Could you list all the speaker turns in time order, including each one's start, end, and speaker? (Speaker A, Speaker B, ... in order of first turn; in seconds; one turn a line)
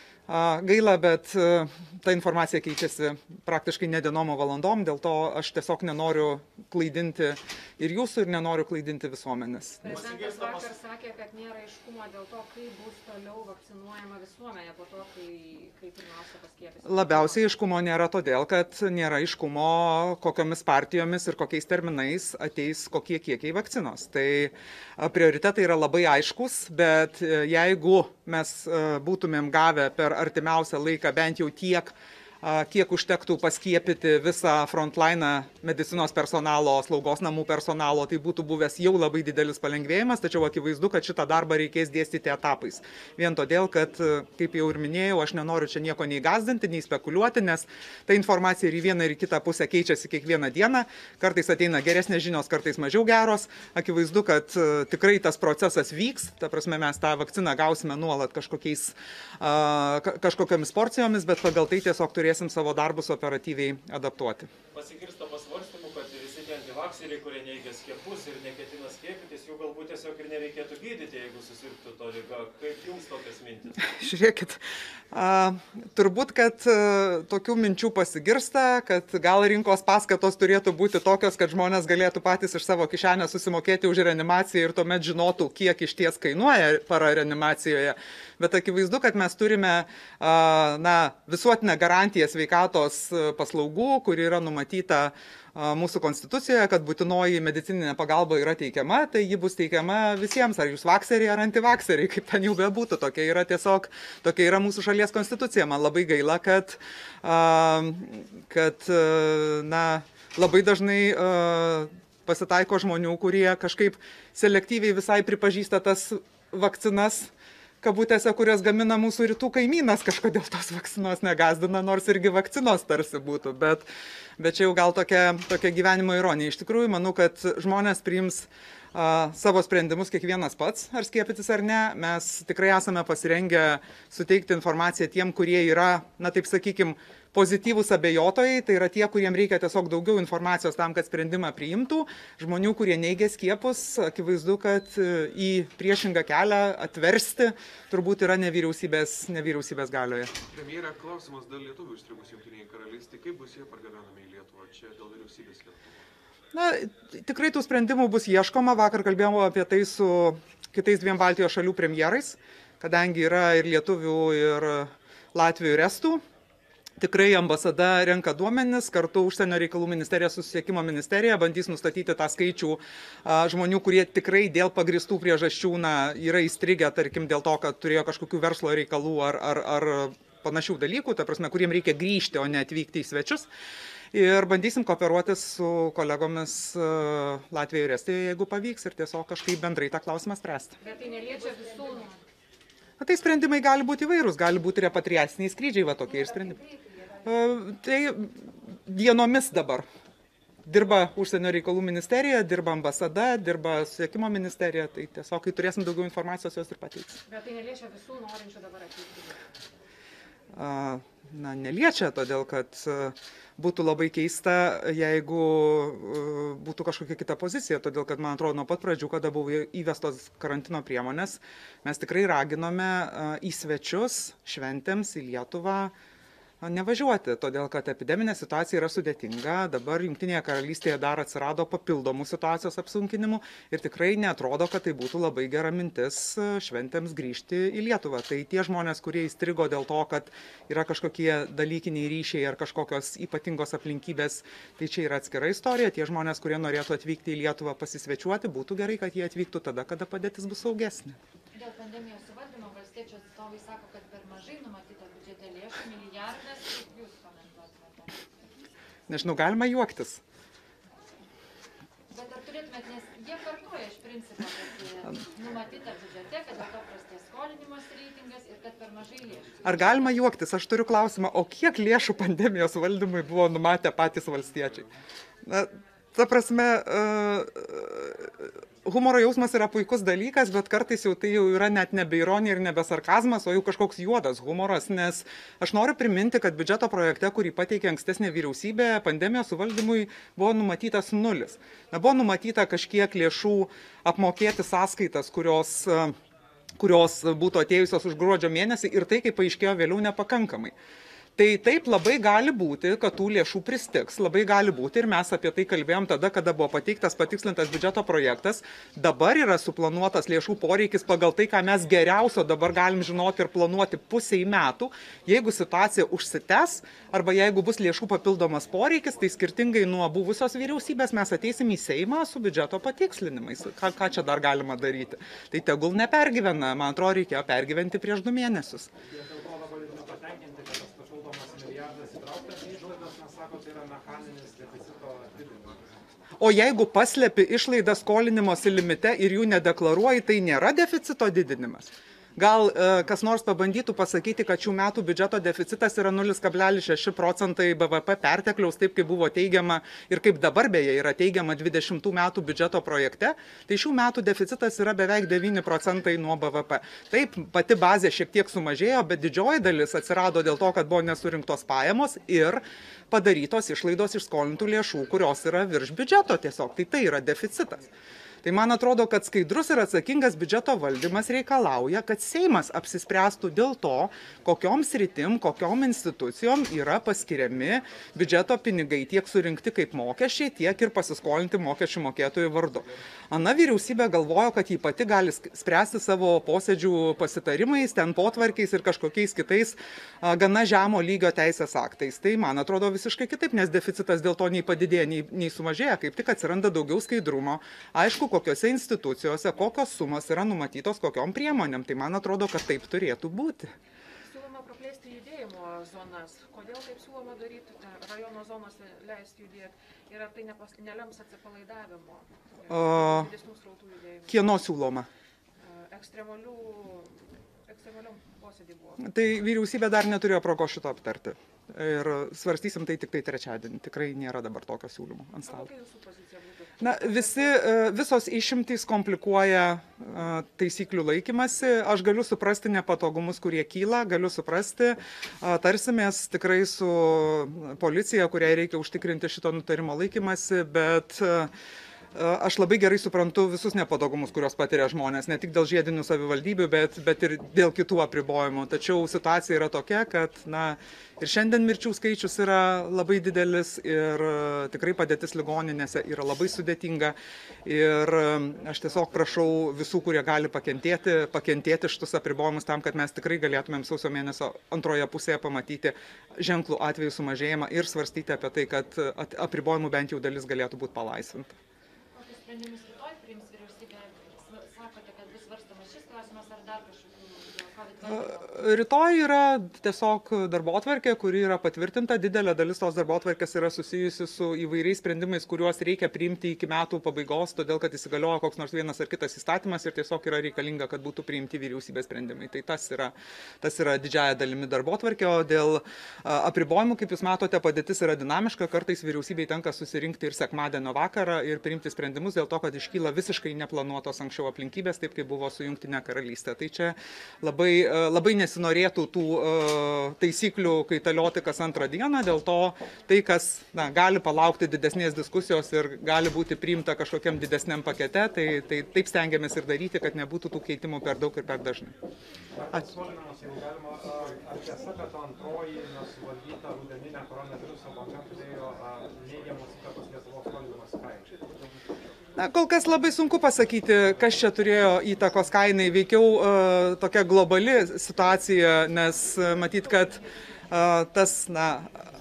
Speaker A: 0.3-9.9
Speaker B: 9.8-17.6
Speaker A: 16.9-64.5
Speaker C: 64.7-73.8
Speaker A: 73.8-117.3
Speaker A: 117.8-123.9
Speaker A: 124.4-150.3
Speaker C: 150.5-151.2
Speaker D: 150.7-155.6
Speaker C: 151.9-152.5
Speaker C: 153.0-153.8
Speaker C: 154.8-155.8
Speaker A: 156.5-166.2
Speaker A: 167.0-183.5
Speaker A: 184.1-190.8
Speaker B: 190.8-192.2
Speaker A: 193.0-196.6
Speaker B: 196.6-197.0
Speaker A: 197.2-199.8
Speaker A: 200.7-207.2
Speaker B: 207.3-209.5
Speaker A: 210.5-225.9
Speaker A: 226.6-251.2
Speaker E: 252.3-253.2
Speaker B: 255.2-256.1
Speaker B: 256.6-257.3
Speaker E: 257.6-258.1
Speaker A: 259.1-260.2
Speaker E: 262.1-269.4
Speaker A: 269.6-274.9
Speaker A: 275.4-296.1
Speaker A: 296.8-300.7
Speaker A: 301.4-328.9
Speaker F: 329.1-335.8
Speaker A: 336.4-367.9
Speaker A: 368.4-403.7
Speaker B: 404.2-414.6
Speaker A: 412.7-413.3
Speaker A: 414.3-415.1
Speaker B: 415.6-419.0
Speaker A: 419.0-425.7
Speaker B: 425.5-427.7
Speaker A: 426.8-441.5
Speaker A: 442.1-471.6
Speaker B: 473.7-474.7
Speaker E: 474.8-475.2
Speaker B: 475.4-476.2
Speaker B: 476.8-478.3
Speaker A: 478.0-521.9
Speaker F: 522.5-531.3
Speaker A: 532.4-541.9